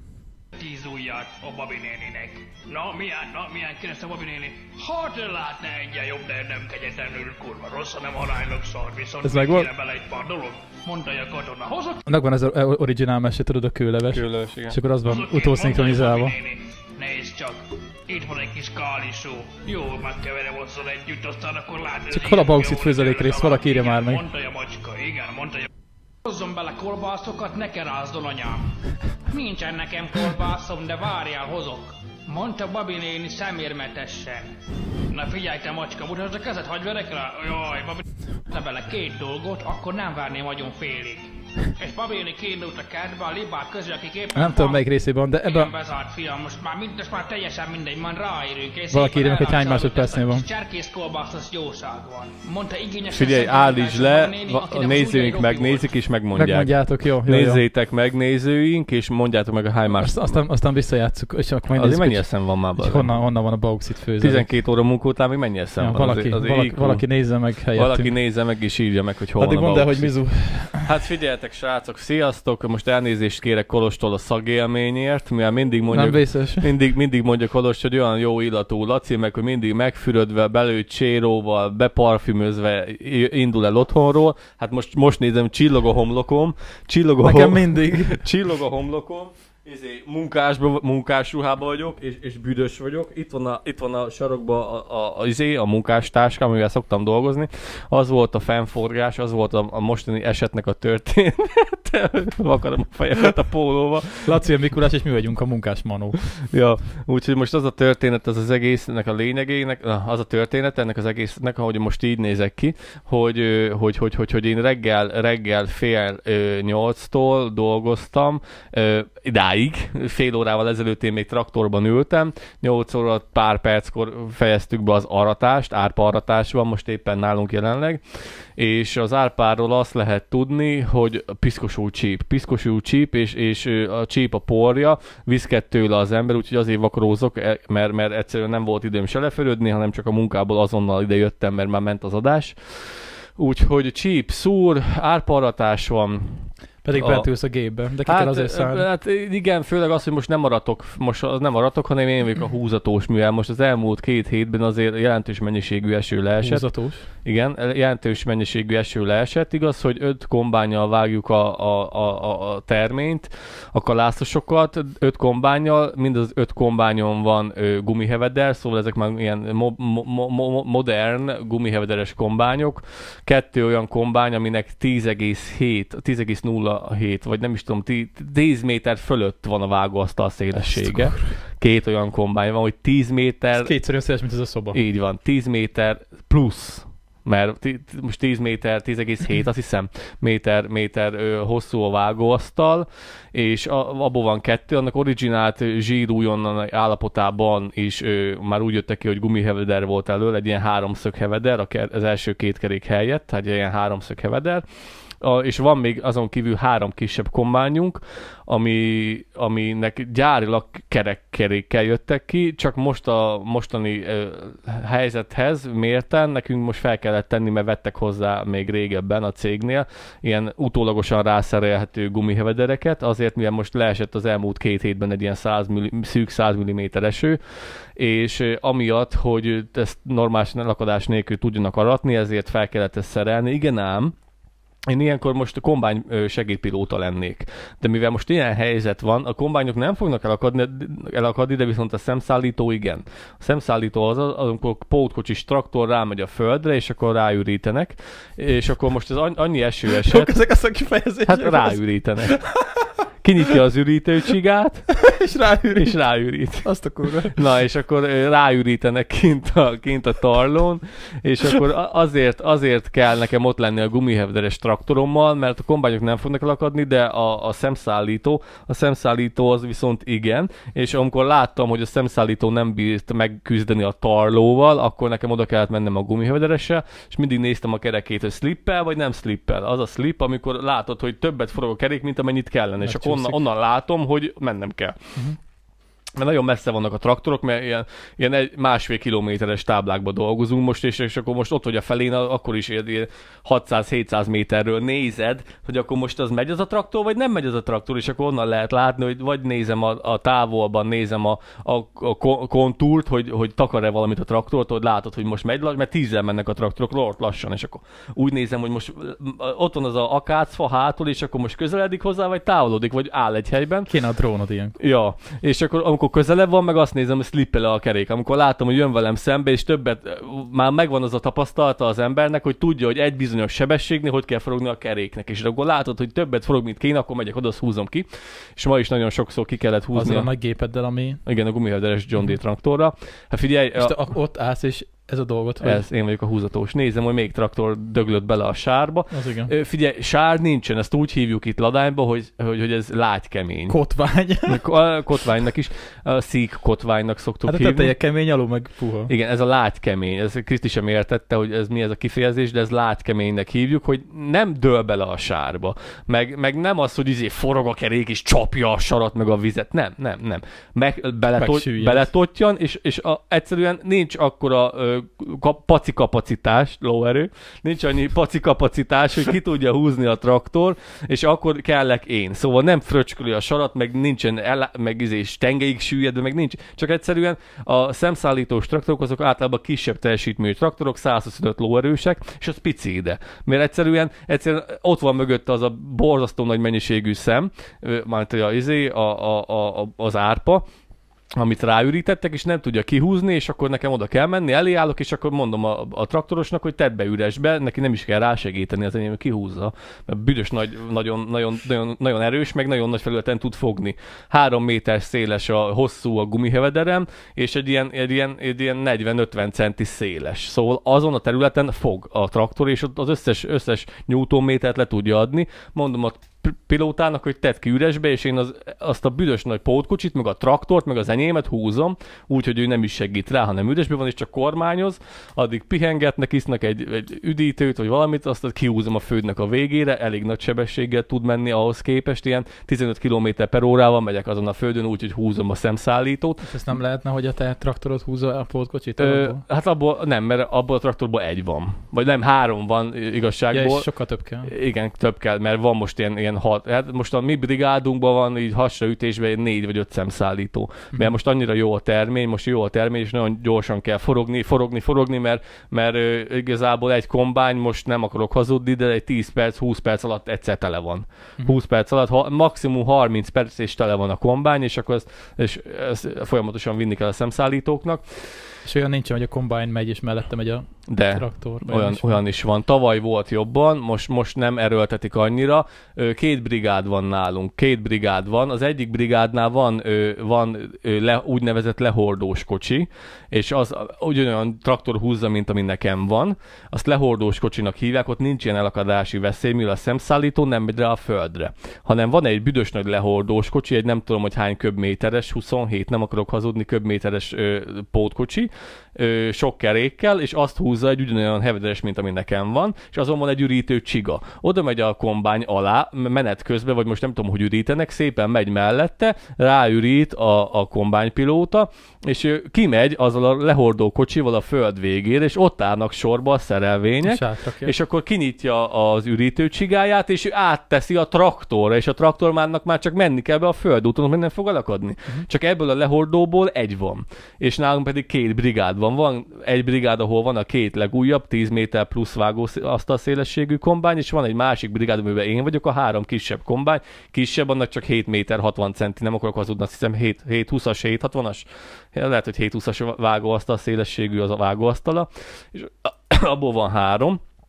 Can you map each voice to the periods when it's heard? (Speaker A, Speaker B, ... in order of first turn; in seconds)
Speaker A: 0.5-12.0, 15.1-25.7, 26.2-34.5, 35.0-44.8, 45.4-55.9
Speaker B: 9.2-9.7, 12.1-16.4, 22.1-24.2, 44.4-45.7, 48.9-50.5, 56.3-57.6, 60.0-64.5, 65.8-68.2, 69.4-70.9, 75.9-76.7, 87.2-88.2, 104.2-106.3, 146.8-148.9, 156.4-157.1, 180.5-181.4, 183.6-184.8, 250.0-252.9, 255.0-257.4, 282.8-283.4, 313.9-314.7, 329.9-331.2, 333.8-335.8, 339.1-339.5, 343.7-344.6, 347.4-349.1, 361.4-362.1, 436.4-439.4, 443.5-444.5, 468.6-472.2, 517.0-517.7
Speaker C: 14.1-14.8, 53.1-60.4, 61.7-63.1, 64.2-104.4, 106.5-183.8, 184.7-234.1, 234.9-250.5, 251.3-255.1, 255.8-284.9, 286.1-313.9, 314.8-330.3, 331.3-333.9, 335.6-343.8, 344.4-347.9, 349.1-390.7, 391.4-436.5, 439.0-443.9, 444.4-468.2, 470.9-547.2